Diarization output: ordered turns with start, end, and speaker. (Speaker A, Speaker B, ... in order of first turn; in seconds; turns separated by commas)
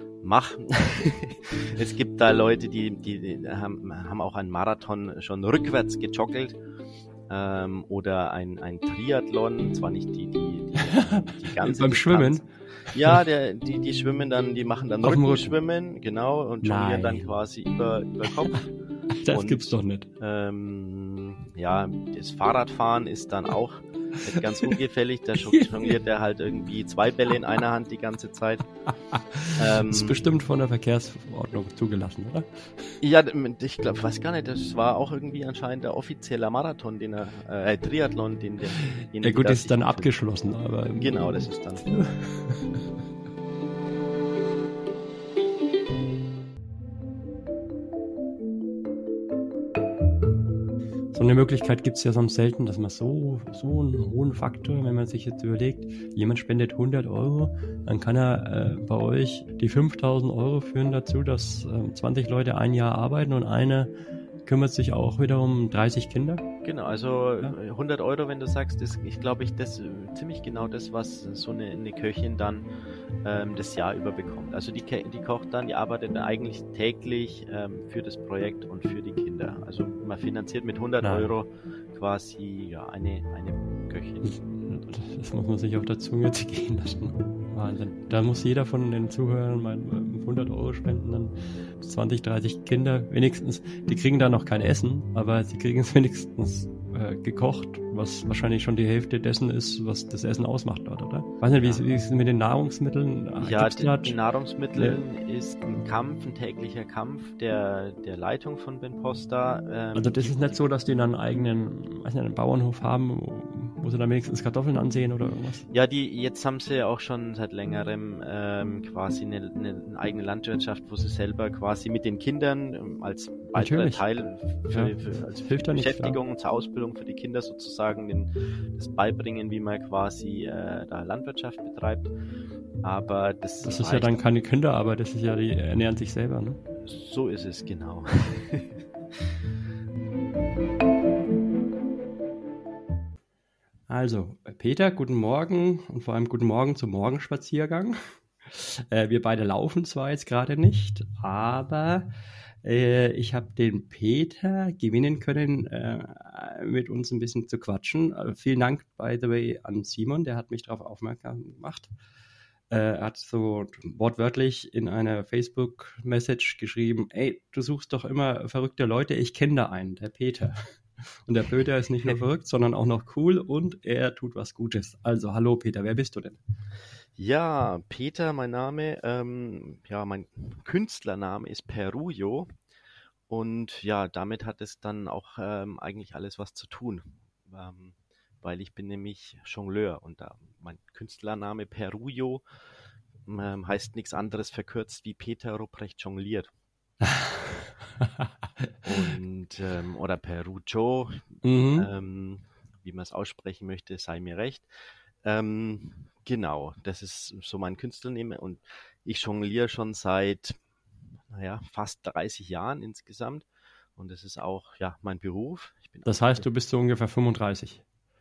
Speaker A: 0.2-6.6, Speaker A: 7.3-18.7, Speaker B: 11.0-12.4, Speaker B: 15.0-15.5, Speaker B: 16.6-17.3, Speaker B: 18.3-18.6, Speaker B: 19.1-20.1, Speaker A: 19.3-28.6, Speaker B: 24.4-24.7, Speaker B: 25.4-26.0, Speaker B: 28.9-32.9, Speaker A: 29.6-30.2, Speaker A: 33.0-40.1, Speaker B: 39.0-42.8, Speaker A: 41.0-41.9, Speaker B: 51.1-63.9, Speaker B: 64.4-66.4, Speaker A: 66.6-72.7, Speaker A: 73.2-84.4, Speaker B: 81.0-81.3, Speaker B: 84.2-104.2, Speaker A: 101.6-101.8, Speaker A: 103.4-110.6, Speaker B: 104.7-105.0, Speaker B: 109.9-115.7, Speaker A: 115.7-132.1, Speaker B: 123.5-124.0, Speaker B: 124.7-126.2, Speaker A: 132.8-134.2, Speaker B: 133.6-136.6, Speaker A: 136.8-138.8, Speaker B: 143.9-152.1, Speaker B: 152.6-161.9, Speaker B: 162.7-170.6, Speaker B: 171.1-176.4, Speaker A: 177.2-182.5, Speaker A: 183.3-192.4, Speaker A: 193.2-196.5, Speaker B: 197.0-199.1, Speaker A: 198.8-204.7, Speaker B: 201.4-201.9, Speaker A: 205.2-210.6, Speaker A: 211.3-216.4, Speaker B: 216.1-217.8